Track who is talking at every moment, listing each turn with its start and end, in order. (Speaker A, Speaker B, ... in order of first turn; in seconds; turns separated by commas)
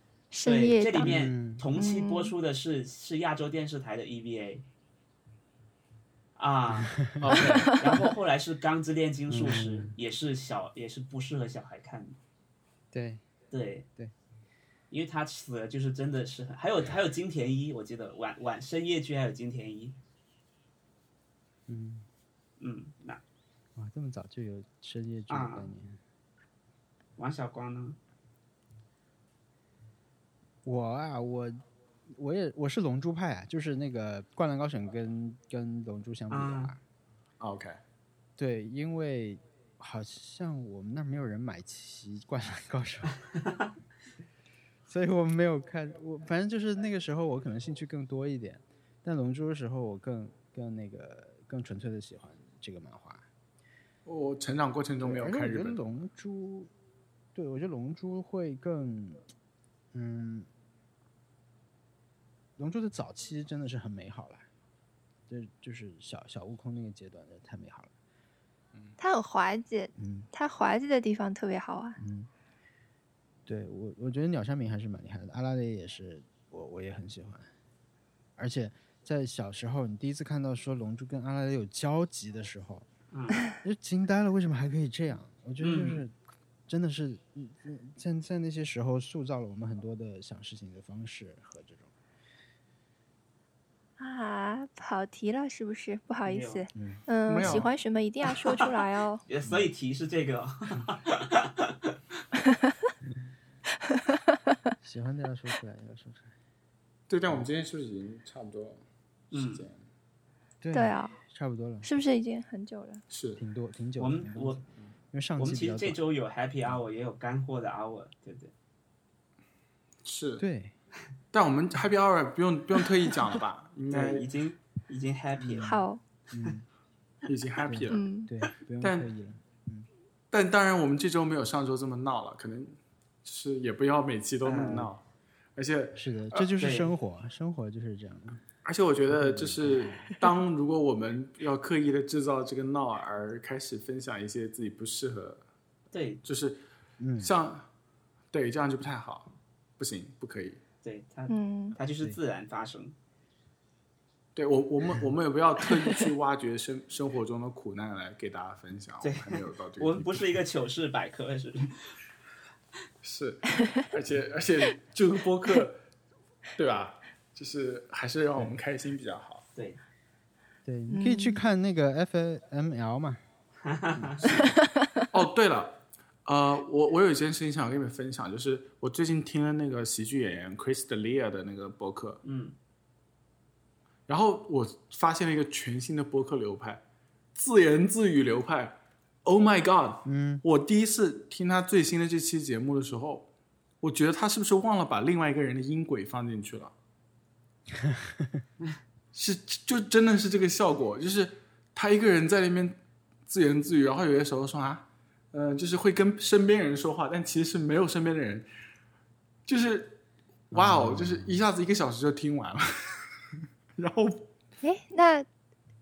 Speaker A: 0.3-1.2, Speaker B: 0.4-4.6, Speaker C: 1.0-1.6, Speaker A: 1.7-2.3, Speaker B: 6.3-12.2, Speaker D: 7.2-7.8, Speaker A: 7.5-8.1, Speaker C: 9.3-9.9, Speaker C: 12.9-13.2, Speaker B: 13.5-13.9, Speaker B: 14.9-19.9, Speaker C: 21.7-22.1, Speaker B: 22.6-23.2, Speaker C: 23.8-26.0, Speaker B: 25.3-25.7, Speaker B: 27.2-28.0, Speaker C: 30.6-36.8, Speaker B: 36.3-36.7, Speaker D: 37.4-37.8, Speaker C: 38.4-43.1, Speaker C: 44.9-53.2, Speaker D: 54.0-55.8, Speaker C: 55.0-56.7, Speaker C: 57.3-59.2, Speaker C: 59.9-60.5, Speaker C: 62.6-64.5, Speaker C: 65.3-67.9, Speaker A: 69.0-72.0, Speaker C: 70.0-70.3, Speaker C: 72.0-72.3, Speaker C: 73.5-77.5, Speaker C: 78.4-82.9, Speaker B: 83.1-83.4, Speaker C: 83.5-86.1, Speaker B: 85.6-86.0, Speaker C: 86.7-91.9, Speaker A: 94.0-99.2, Speaker B: 96.2-96.7, Speaker C: 96.7-97.0, Speaker D: 97.3-97.7, Speaker B: 99.3-102.0, Speaker C: 99.4-99.7, Speaker A: 103.9-104.2, Speaker C: 104.8-106.3, Speaker D: 107.1-108.8, Speaker B: 109.3-109.7, Speaker D: 109.3-109.8, Speaker C: 110.6-111.9, Speaker A: 110.7-111.2, Speaker A: 111.8-113.0, Speaker D: 113.1-113.4, Speaker C: 113.4-116.0, Speaker B: 114.0-114.6, Speaker B: 115.4-118.5, Speaker D: 120.0-120.4, Speaker C: 120.4-120.7, Speaker D: 121.3-124.2, Speaker B: 123.9-125.8, Speaker C: 125.4-126.6, Speaker A: 125.6-126.0, Speaker D: 127.2-128.1, Speaker C: 127.6-129.9, Speaker A: 127.9-128.3, Speaker D: 128.8-129.1, Speaker D: 130.3-135.0, Speaker B: 134.4-134.9, Speaker D: 135.6-136.5, Speaker C: 135.9-138.4, Speaker B: 136.6-136.9, Speaker D: 138.6-145.4, Speaker C: 139.1-140.2, Speaker B: 145.9-146.2, Speaker D: 146.2-146.6, Speaker C: 147.0-147.3, Speaker D: 147.2-147.7, Speaker D: 148.3-150.6, Speaker B: 150.8-152.9, Speaker A: 151.3-151.8, Speaker D: 154.3-160.3, Speaker B: 159.0-161.9, Speaker D: 163.0-165.8, Speaker D: 166.6-169.4, Speaker C: 170.6-173.2, Speaker A: 170.9-171.4, Speaker B: 173.6-174.4, Speaker A: 174.4-174.9, Speaker D: 175.1-182.2, Speaker B: 182.2-182.5, Speaker D: 184.1-186.8, Speaker D: 187.3-193.3, Speaker C: 190.0-190.4, Speaker D: 193.8-196.7, Speaker C: 197.7-198.4, Speaker D: 199.1-208.5, Speaker D: 209.5-213.1, Speaker C: 210.5-211.4, Speaker D: 213.8-214.3, Speaker A: 214.6-215.3